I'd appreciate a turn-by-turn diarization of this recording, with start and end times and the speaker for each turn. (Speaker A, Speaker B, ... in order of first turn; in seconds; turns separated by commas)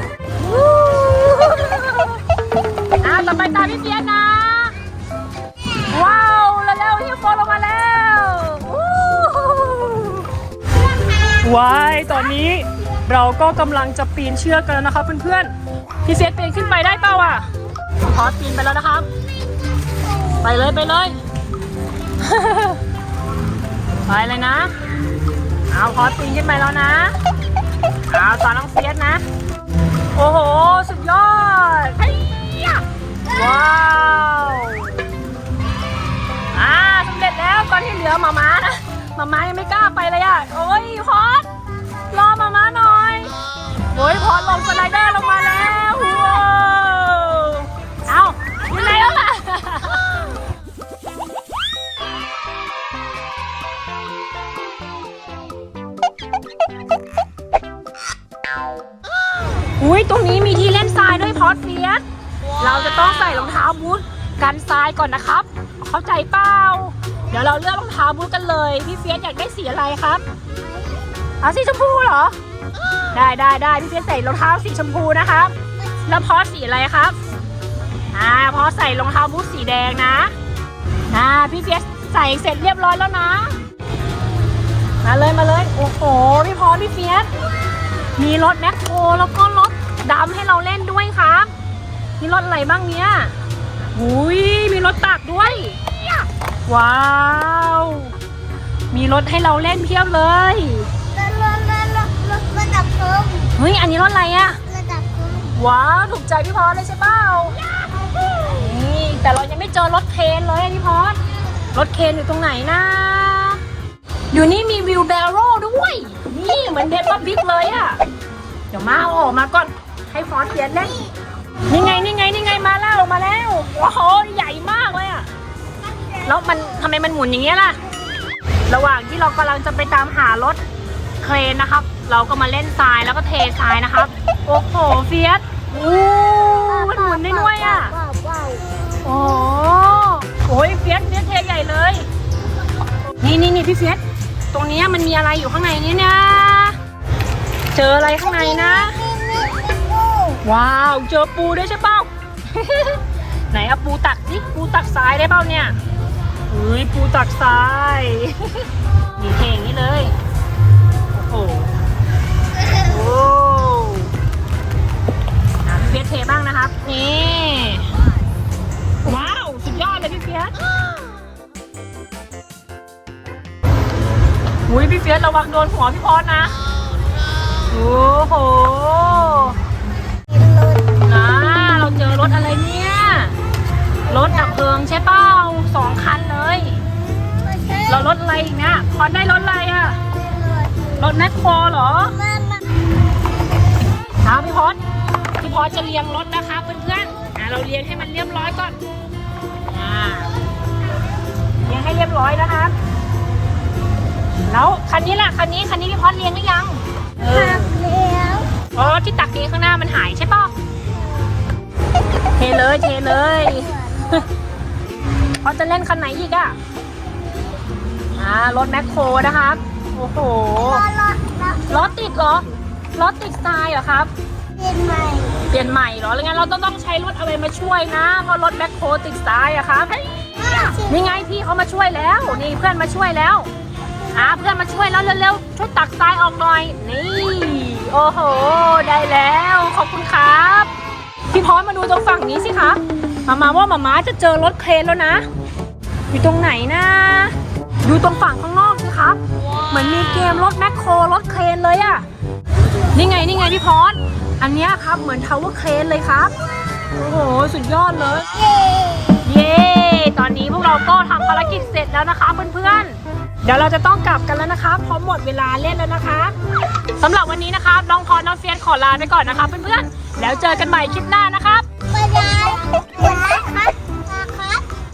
Speaker A: 0.4-2.2, Speaker A: 3.0-4.8, Speaker A: 5.9-10.3, Speaker A: 11.3-15.5, Speaker A: 16.0-17.5, Speaker A: 18.0-19.1, Speaker A: 20.4-21.2, Speaker A: 22.2-22.8, Speaker A: 24.1-24.7, Speaker A: 25.7-27.1, Speaker A: 28.1-29.2, Speaker A: 30.1-35.0, Speaker A: 36.5-41.5, Speaker A: 42.1-43.4, Speaker A: 43.9-50.2, Speaker A: 59.8-62.0, Speaker A: 62.6-70.2, Speaker B: 70.6-71.1, Speaker A: 71.4-72.3, Speaker A: 73.1-75.5, Speaker A: 76.1-77.2, Speaker A: 78.1-80.3, Speaker A: 81.1-83.5, Speaker A: 85.0-87.3, Speaker A: 88.2-91.5, Speaker A: 92.2-93.3, Speaker A: 93.9-95.8, Speaker A: 96.7-98.2, Speaker A: 98.9-100.9, Speaker B: 101.1-103.5, Speaker A: 103.6-104.6, Speaker B: 104.7-105.6, Speaker A: 105.5-107.6, Speaker A: 108.3-111.2, Speaker A: 111.7-113.6, Speaker A: 114.3-118.0, Speaker A: 118.7-121.0, Speaker A: 121.7-125.3, Speaker A: 126.2-127.8, Speaker A: 128.7-130.6, Speaker A: 131.2-137.9, Speaker B: 136.7-138.7, Speaker A: 139.0-142.1, Speaker A: 143.2-146.8, Speaker A: 147.7-149.0, Speaker B: 148.2-150.4, Speaker A: 150.4-155.8, Speaker A: 156.5-160.2, Speaker A: 161.1-161.7, Speaker A: 162.7-164.1, Speaker A: 165.6-167.9, Speaker A: 169.0-170.6, Speaker A: 174.7-176.6, Speaker A: 177.7-179.6, Speaker B: 180.3-181.0, Speaker A: 181.0-183.4, Speaker A: 184.1-186.8, Speaker B: 187.4-188.1, Speaker A: 187.9-190.0, Speaker B: 190.2-191.0, Speaker A: 191.0-192.2, Speaker B: 192.2-192.8, Speaker A: 194.2-194.8, Speaker A: 195.4-198.8, Speaker A: 199.7-200.3, Speaker A: 201.6-202.8, Speaker A: 204.5-207.7, Speaker B: 207.2-208.5, Speaker A: 208.7-210.5, Speaker A: 212.4-214.3, Speaker B: 213.6-214.1, Speaker A: 215.4-216.6, Speaker A: 218.2-220.8, Speaker B: 220.6-221.8, Speaker A: 221.7-224.1, Speaker B: 224.6-225.4, Speaker A: 225.5-230.0, Speaker B: 230.4-231.1, Speaker A: 230.9-233.5, Speaker A: 234.1-240.7, Speaker A: 241.3-245.3, Speaker A: 246.1-252.1, Speaker A: 252.9-256.3, Speaker A: 256.9-258.3, Speaker B: 258.4-259.2, Speaker A: 259.2-266.3, Speaker A: 267.0-271.7, Speaker B: 271.9-274.7